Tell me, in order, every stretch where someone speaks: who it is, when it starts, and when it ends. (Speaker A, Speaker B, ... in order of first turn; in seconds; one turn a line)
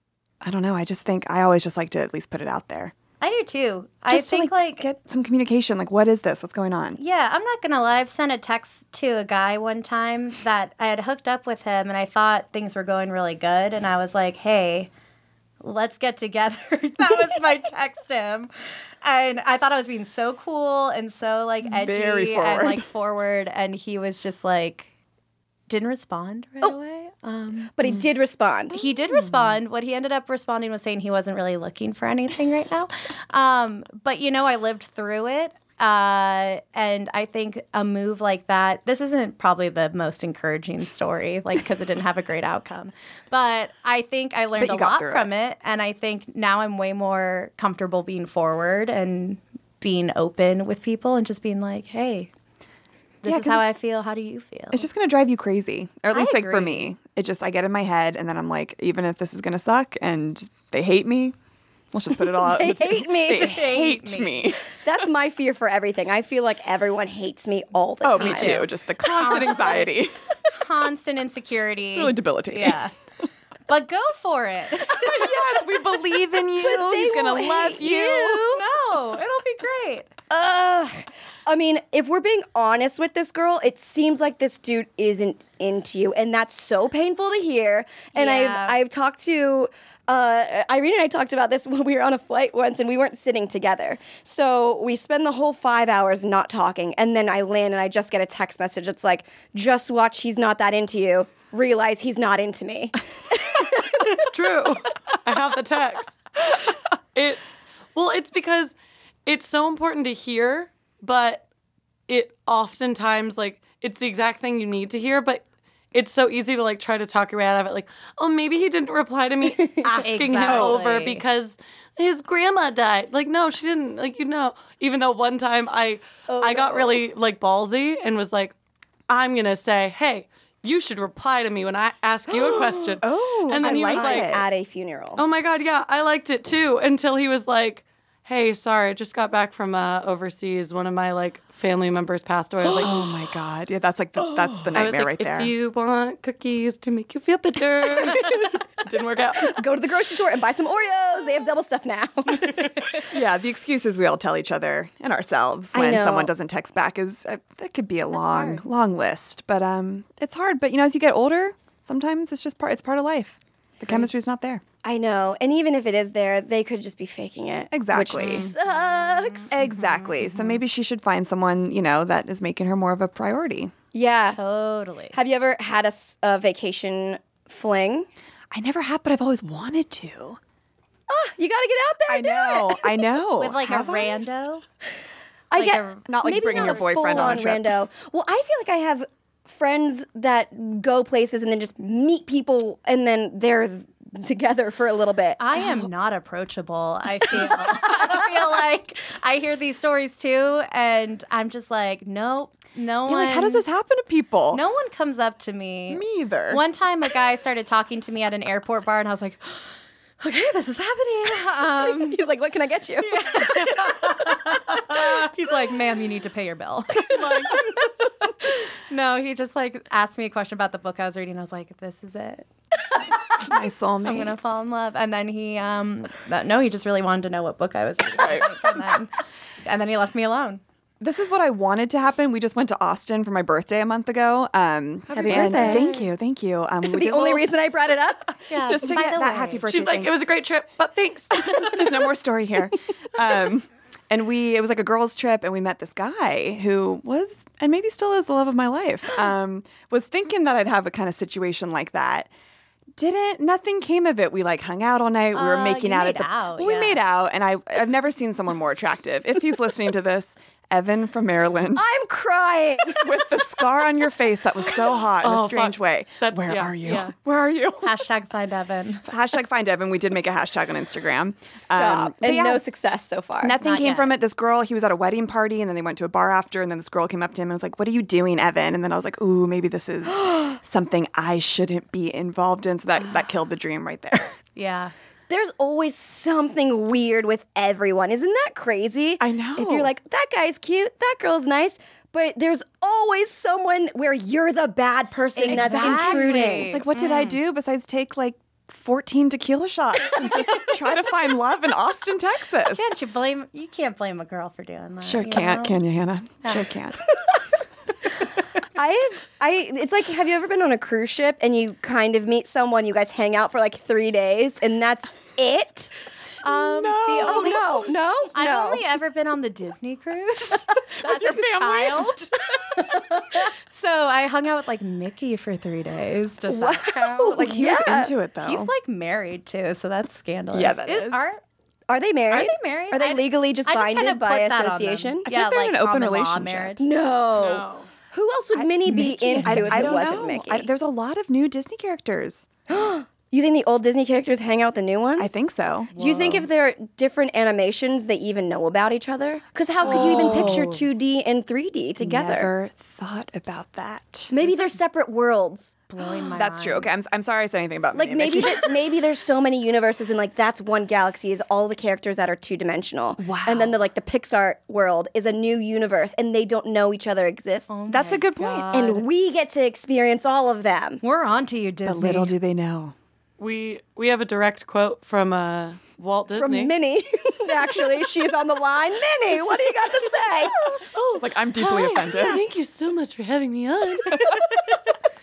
Speaker A: 0.4-2.9
Speaker B: 3.2-4.9
Speaker A: 4.1-7.0
Speaker B: 7.0-14.9
Speaker B: 15.6-24.9
Speaker A: 21.6-22.8
Speaker B: 25.7-27.8
Speaker C: 27.8-28.9
Speaker B: 28.7-52.3
Speaker A: 29.1-29.6
Speaker A: 44.6-45.3
Speaker B: 53.2-54.9
Speaker A: 53.2-53.6
Speaker A: 54.7-61.4
Speaker B: 56.1-56.9
Speaker A: 61.9-64.7
Speaker C: 62.3-63.6
Speaker B: 63.3-64.5
Speaker C: 64.8-68.7
Speaker A: 68.0-70.2
Speaker B: 68.1-69.9
Speaker B: 70.5-72.9
Speaker A: 71.9-72.8
Speaker B: 73.7-75.3
Speaker A: 74.9-78.5
Speaker C: 76.6-78.6
Speaker B: 78.5-80.1
Speaker C: 80.3-103.0
Speaker B: 88.1-88.8
Speaker C: 103.5-104.0
Speaker D: 103.9-106.6
Speaker D: 107.1-107.4
Speaker D: 108.0-108.7
Speaker D: 109.3-111.5
Speaker D: 112.1-128.5
Speaker B: 120.0-121.2
Speaker A: 120.4-120.8
Speaker C: 126.3-127.0
Speaker D: 129.1-134.4
Speaker C: 132.3-133.0
Speaker A: 133.0-134.4
Speaker C: 133.6-135.2
Speaker D: 135.2-142.9
Speaker A: 142.8-145.5
Speaker D: 144.7-149.6
Speaker C: 148.0-148.4
Speaker C: 149.4-152.8
Speaker A: 153.1-164.6
Speaker C: 155.7-156.3
Speaker B: 158.1-158.6
Speaker C: 164.8-169.5
Speaker A: 167.7-168.5
Speaker B: 168.3-170.6
Speaker A: 169.5-173.7
Speaker C: 173.9-174.4
Speaker B: 174.3-175.2
Speaker C: 175.1-178.1
Speaker A: 178.5-180.4
Speaker C: 181.1-183.0
Speaker A: 182.1-184.2
Speaker B: 183.4-184.6
Speaker C: 185.5-195.4
Speaker B: 185.5-187.5
Speaker A: 186.1-187.8
Speaker B: 195.4-203.7
Speaker C: 197.3-197.8
Speaker A: 203.1-204.6
Speaker B: 204.5-212.2
Speaker A: 205.9-206.6
Speaker C: 211.8-213.6
Speaker B: 213.0-222.5
Speaker A: 223.4-224.3
Speaker B: 224.0-229.1
Speaker A: 228.2-228.8
Speaker B: 229.6-230.6
Speaker A: 231.0-237.5
Speaker C: 235.1-235.9
Speaker B: 235.2-236.1
Speaker C: 236.9-238.4
Speaker B: 238.5-239.7
Speaker A: 238.6-240.2
Speaker D: 239.7-241.8
Speaker A: 241.4-252.3
Speaker A: 253.0-261.9
Speaker B: 255.3-257.0
Speaker C: 261.8-263.2
Speaker A: 262.9-267.9
Speaker D: 265.2-267.0
Speaker B: 266.9-267.1
Speaker B: 267.8-269.1
Speaker A: 269.1-272.6
Speaker C: 271.5-273.6
Speaker B: 273.4-274.2
Speaker A: 273.6-284.3
Speaker B: 284.6-284.9
Speaker C: 285.3-296.7
Speaker A: 289.2-289.9
Speaker B: 295.4-297.4
Speaker A: 295.4-302.9
Speaker B: 302.7-305.8
Speaker A: 305.0-307.0
Speaker B: 306.4-306.7
Speaker C: 308.8-315.9
Speaker B: 316.4-327.5
Speaker A: 316.4-317.8
Speaker C: 317.2-318.8
Speaker A: 321.0-322.3
Speaker C: 326.5-328.1
Speaker A: 326.9-328.7
Speaker B: 328.4-331.4
Speaker A: 330.5-331.3
Speaker C: 331.9-335.2
Speaker B: 332.3-336.9
Speaker A: 335.3-336.8
Speaker C: 336.8-340.7
Speaker D: 337.4-337.9
Speaker A: 338.5-342.5
Speaker B: 338.9-340.1
Speaker C: 342.7-345.4
Speaker A: 345.2-346.4
Speaker C: 345.9-352.5
Speaker A: 349.8-350.7
Speaker B: 350.2-350.5
Speaker A: 352.0-354.4
Speaker C: 354.3-355.8
Speaker B: 355.9-356.9
Speaker A: 356.3-358.8
Speaker C: 357.9-367.9
Speaker A: 363.2-363.8
Speaker B: 367.7-369.1
Speaker A: 367.9-368.9
Speaker C: 368.7-371.0
Speaker B: 371.0-372.4
Speaker A: 371.9-372.9
Speaker D: 373.4-376.7
Speaker C: 376.3-380.6
Speaker D: 381.0-384.8
Speaker A: 381.1-382.4